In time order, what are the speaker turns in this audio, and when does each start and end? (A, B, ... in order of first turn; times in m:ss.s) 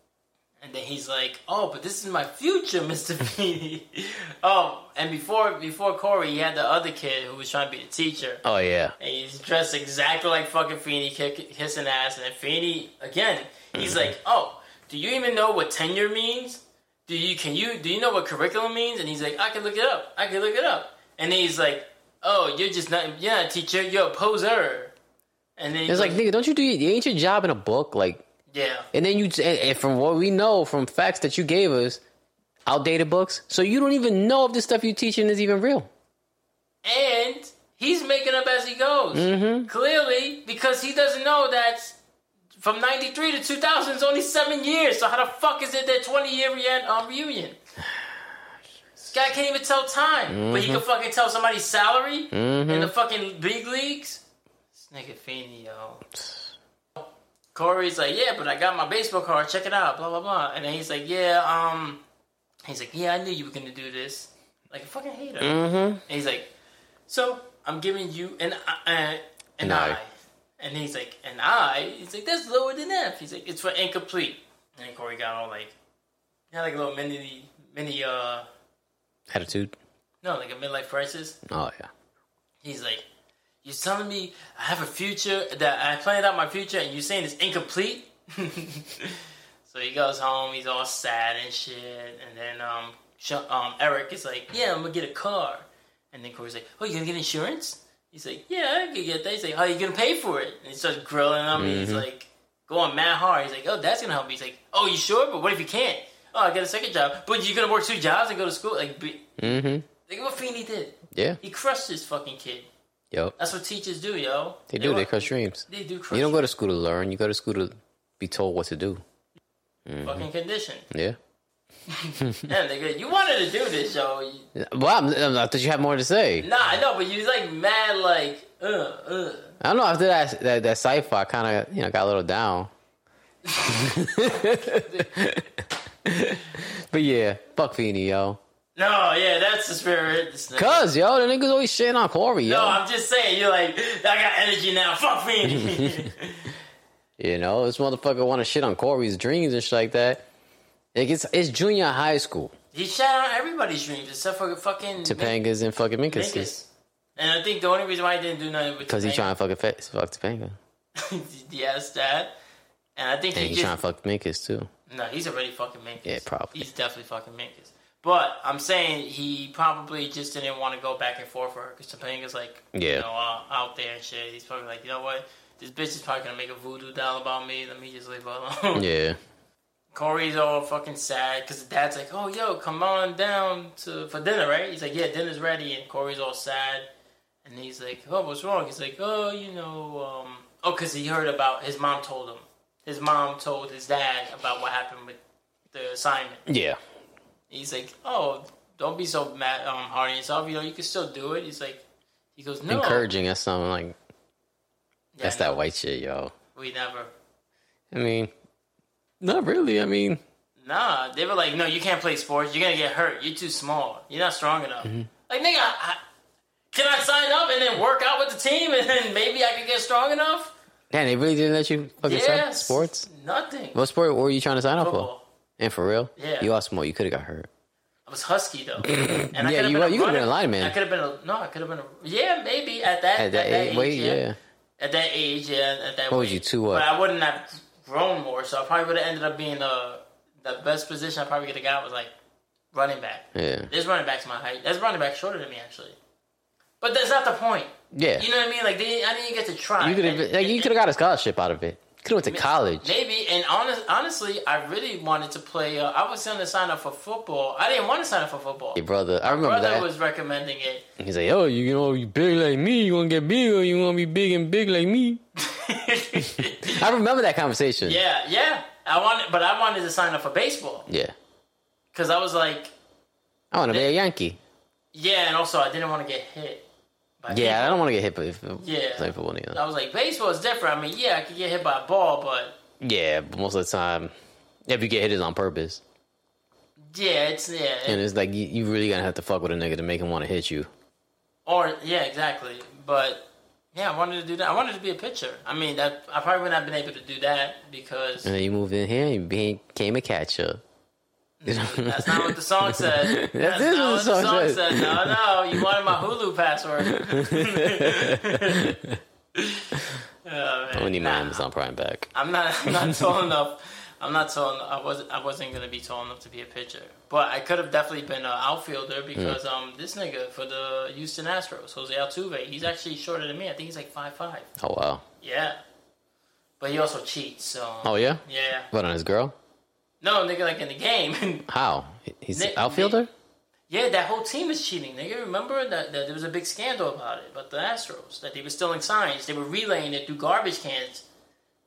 0:00.6-0:08.4 A
0:08.4-0:09.0 B
0:09.0-0:25.0 A
0:13.8-0:14.1 B
0:25.6-0:26.2 A
0:25.9-0:28.2 B
0:28.5-0:28.9 A
0:28.9-0:32.0 B
0:32.7-0:35.9 B
0:36.8-0:42.0 A
0:39.1-0:39.7 B
0:42.6-0:47.6 A
0:49.1-0:54.2 A
0:50.3-0:50.8 B
0:52.3-0:52.9 B
0:54.8-0:56.1 A
0:57.6-1:02.0 A
1:02.7-1:06.5 A
1:05.4-1:06.0 B
1:07.1-1:15.8 A
1:09.6-1:10.0 B
1:16.5-1:18.5 A
1:19.3-1:19.8 B
1:20.2-1:21.4 A
1:21.5-1:21.9 B
1:22.6-1:23.0 A
1:23.6-1:52.7 A
1:41.6-1:42.0 B
1:49.4-1:49.9 B
1:51.1-1:51.4 B
1:53.4-1:56.5 A
1:54.7-1:59.0 B
1:59.9-2:00.3 B
2:00.0-2:00.9 A
2:00.9-2:01.2 B
2:01.9-2:04.5 A
2:02.2-2:02.5 B
2:04.6-2:06.5 B
2:06.4-2:09.5 A
2:09.6-2:12.7 B
2:13.5-2:15.1 A
2:13.6-2:18.4 B
2:18.8-2:20.9 A
2:20.6-2:22.8 B
2:22.4-2:26.6 A
2:25.5-2:26.1 B
2:27.2-2:30.3 B
2:30.9-2:32.6 B
2:32.7-2:35.4 A
2:35.0-2:36.6 B
2:36.1-2:39.3 A
2:38.9-2:40.6 B
2:41.0-2:42.3 A
2:43.0-2:43.8 A
2:43.3-2:44.7 B
2:44.9-2:58.8 A
2:46.0-2:46.6 B
2:52.7-2:53.1 B
2:58.8-2:59.2 B
2:59.9-3:06.9 A
3:07.4-3:15.2 A
3:15.7-3:16.5 A
3:16.5-3:16.8 B
3:17.5-3:21.8 A
3:22.4-3:23.1 A
3:22.7-3:24.0 B
3:25.2-3:25.6 A
3:25.2-3:26.3 B
3:26.6-3:27.1 A
3:27.9-3:28.3 B
3:29.2-3:30.2 B
3:30.6-3:36.0 A
3:36.7-3:40.5 A
3:40.9-3:43.1 B
3:42.0-3:43.8 A
3:43.8-3:47.5 B
3:44.8-3:45.2 A
3:46.2-3:46.5 A
3:48.1-3:54.2 A
3:48.8-3:50.7 B
3:53.2-3:54.4 B
3:54.8-4:02.1 A
3:56.1-3:56.9 B
4:02.7-4:06.0 A
4:03.4-4:03.7 B
4:06.8-4:10.7 A
4:07.9-4:08.3 B
4:09.8-4:12.9 B
4:12.2-4:20.8 A
4:18.8-4:19.9 B
4:21.0-4:25.2 B
4:25.4-4:26.9 A
4:26.2-4:28.0 B
4:27.8-4:30.9 A
4:30.9-4:31.1 B
4:31.9-4:32.7 A
4:33.5-4:34.4 B
4:34.9-4:36.6 A
4:37.2-4:37.8 A
4:37.3-4:39.6 B
4:38.6-4:42.6 A
4:42.8-4:44.1 B
4:44.7-4:45.8 B
4:46.9-4:48.0 A
4:47.9-4:50.7 B
4:51.5-4:58.3 A
4:58.2-5:00.6 B
5:01.4-5:08.8 A
5:01.5-5:05.9 B
5:07.0-5:09.0 B
5:09.4-5:11.4 A
5:10.7-5:12.1 B
5:12.1-5:24.5 A
5:12.7-5:13.0 B
5:24.6-5:25.0 B
5:25.2-5:25.6 A
5:26.6-5:28.7 A
5:27.8-5:29.4 B
5:30.0-5:31.5 A
5:31.5-5:33.1 B
5:32.3-5:33.0 A
5:33.7-5:41.0 A